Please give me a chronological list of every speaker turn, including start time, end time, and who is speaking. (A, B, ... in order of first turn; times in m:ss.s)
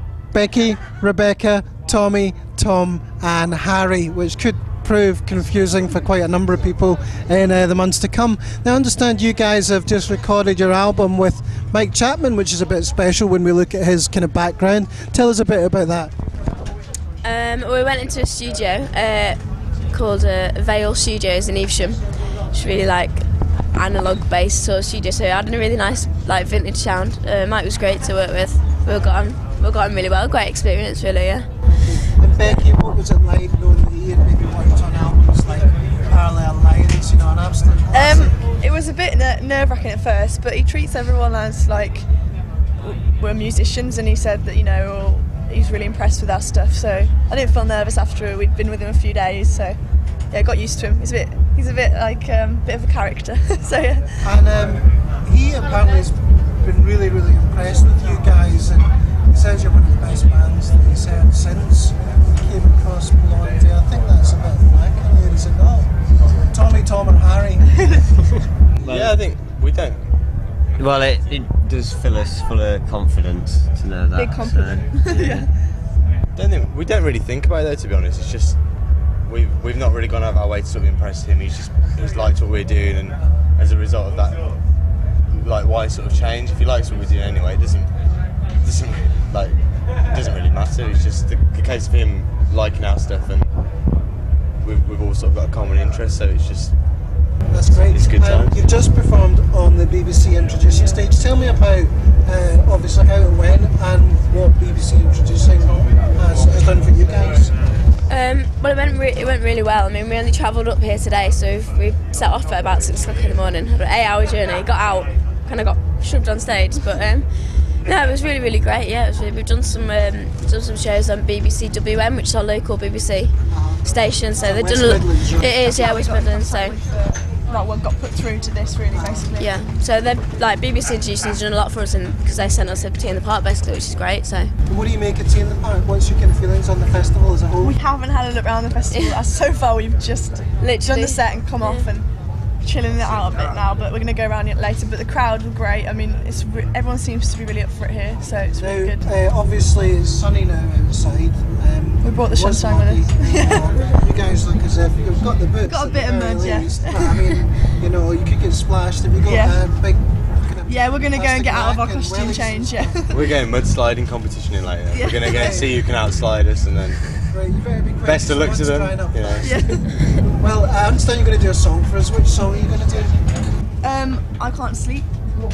0:00.3-0:16.1 A
0:17.2-0:19.4 B
0:19.9-0:31.5 B
0:31.8-0:38.4 A
0:37.9-0:42.1 C
0:42.8-0:49.8 C
0:50.3-0:54.3 C
0:54.2-1:05.9 A
1:06.4-1:07.9 A
1:08.8-1:09.2 D
1:08.8-1:10.0 E
1:10.8-1:15.5 D
1:14.2-1:15.3 C
1:16.3-1:18.6 E
1:19.2-1:24.4 E
1:25.3-1:27.9 E
1:28.6-1:33.5 E
1:34.6-1:36.7 E
1:37.5-1:47.5 A
1:37.7-1:38.6 E
1:48.1-1:57.3 B
1:57.8-2:06.8 B
2:03.5-2:05.9 A
2:05.9-2:09.5 C
2:08.9-2:09.3 A
2:09.4-2:14.5 B
2:14.7-2:17.8 A
2:17.6-2:22.1 C
2:18.9-2:19.2 B
2:20.6-2:21.8 B
2:22.6-2:29.1 C
2:28.6-2:43.1 A
2:32.0-2:33.7 C
2:35.6-2:37.2 C
2:39.2-2:39.5 C
2:40.6-2:43.1 C
2:43.1-2:47.2 E
2:45.2-2:45.7 A
2:47.3-2:53.2 A
2:48.0-2:49.6 E
2:49.4-2:49.8 C
2:53.8-2:55.1 C